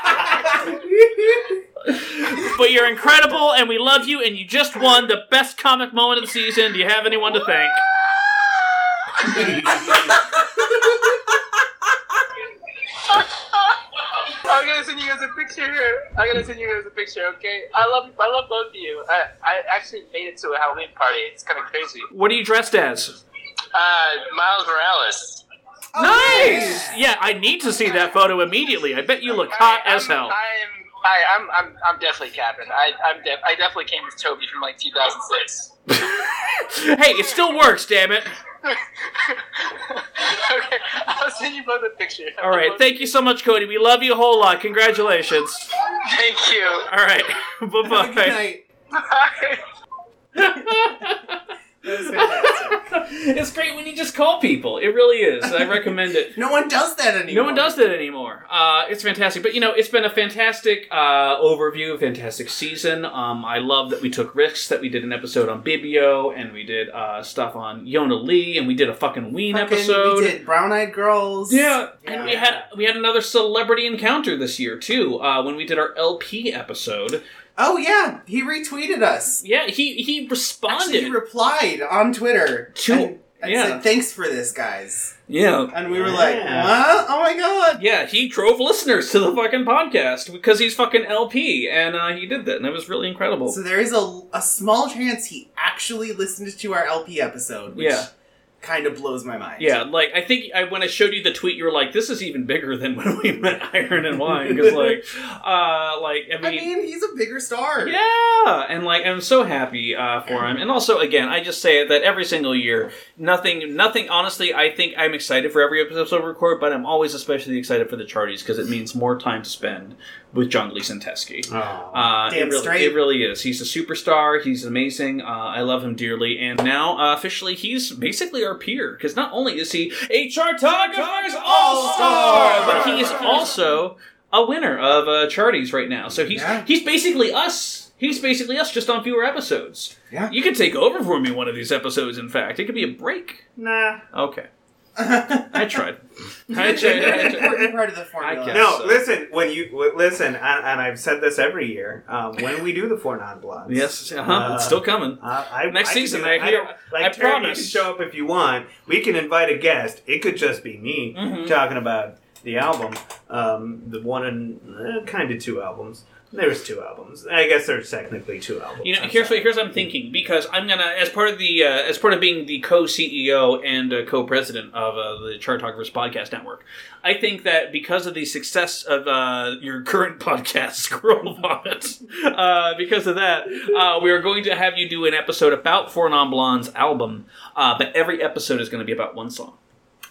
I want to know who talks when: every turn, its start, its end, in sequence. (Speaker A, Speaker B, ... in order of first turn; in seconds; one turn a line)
Speaker A: 1.9-7.8
Speaker B: 9.3-10.1
Speaker C: 13.1-13.8
Speaker C: 14.4-22.1
Speaker A: 22.1-23.2
Speaker C: 23.7-25.4
Speaker D: 25.9-26.9
Speaker A: 26.0-30.3
Speaker C: 29.3-35.8
Speaker A: 36.1-38.3
Speaker C: 38.6-43.1
Speaker A: 42.4-45.7
Speaker C: 46.0-46.9
Speaker A: 46.9-48.4
Speaker D: 47.9-48.6
Speaker C: 48.9-49.6
Speaker A: 50.4-56.4
Speaker D: 51.8-52.8
Speaker D: 55.5-55.8
Speaker D: 56.4-57.7
Speaker A: 57.3-70.4
Speaker D: 69.5-72.4
Speaker A: 71.5-77.2
Speaker B: 72.2-72.7
Speaker D: 77.6-79.4
Speaker A: 79.4-81.2
Speaker D: 80.7-85.1
Speaker A: 82.7-83.8
Speaker A: 85.3-85.7
Speaker D: 85.7-87.8
Speaker B: 85.9-86.9
Speaker A: 87.8-93.6
Speaker D: 93.5-98.1
Speaker A: 97.7-98.1
Speaker D: 98.6-99.8
Speaker A: 99.6-106.7
Speaker B: 104.5-104.9
Speaker D: 106.4-108.0
Speaker A: 107.8-143.4
Speaker B: 121.5-122.1
Speaker D: 122.3-123.0
Speaker D: 130.8-133.3
Speaker D: 136.3-136.7
Speaker B: 143.6-144.0
Speaker A: 144.1-144.5
Speaker D: 145.0-145.8
Speaker A: 145.5-147.6
Speaker D: 146.5-148.8
Speaker B: 146.5-147.7
Speaker A: 148.2-149.1
Speaker B: 148.5-169.7
Speaker A: 153.7-157.9
Speaker A: 161.1-161.6
Speaker A: 168.8-189.6